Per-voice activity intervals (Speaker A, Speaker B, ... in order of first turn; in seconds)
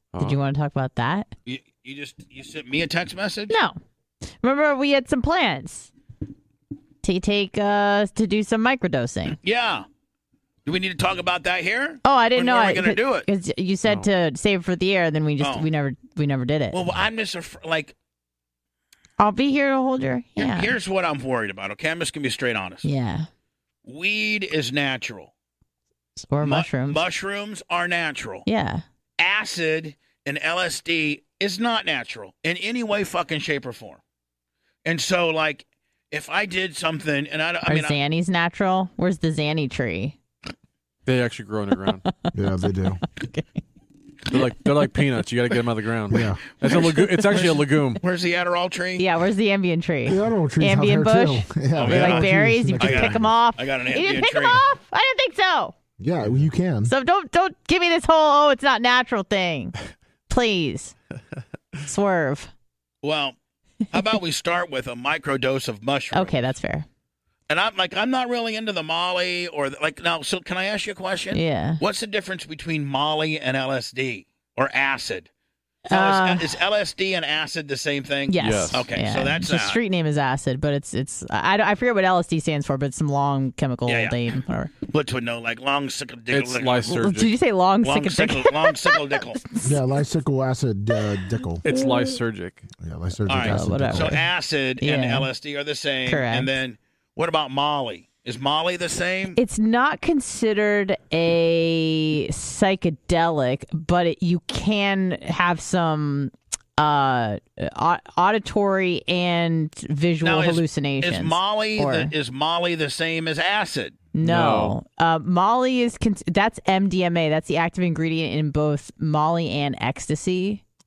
Speaker A: 0.1-0.4, 41.0-42.0, 44.3-48.0, 78.4-78.8, 86.3-87.3, 91.6-92.7, 114.2-114.7
Speaker B: 0.2-1.3, 3.5-3.8, 4.4-5.9, 7.0-9.4, 12.0-16.8, 19.2-20.7, 22.8-23.3, 26.2-27.0, 28.4-28.8, 37.6-40.1, 43.2-43.6, 46.7-47.4, 49.0-55.7, 56.9-59.7, 60.3-60.9, 61.8-62.5, 66.1-66.8, 71.3-71.8, 75.9-76.5, 78.3-84.7, 86.9-89.8, 93.4-94.3, 94.8-95.3, 96.1-96.5, 99.3-112.1, 114.1-120.6
Speaker C: 1.4-3.6, 9.4-9.8, 10.7-13.3, 15.4-15.7, 16.7-17.9, 20.4-22.9, 23.8-25.3, 26.4-28.4, 29.2-34.0, 34.8-38.0, 47.3-49.0, 51.7-54.6, 63.0-63.4, 63.9-66.3, 67.5-75.3, 75.9-79.8, 83.8-84.2, 84.9-86.9, 87.8-89.4, 93.3-99.4, 110.2-114.0
Speaker D: 42.3-43.0, 46.1-46.4, 50.0-53.3, 56.0-56.9, 89.6-91.6, 92.8-94.2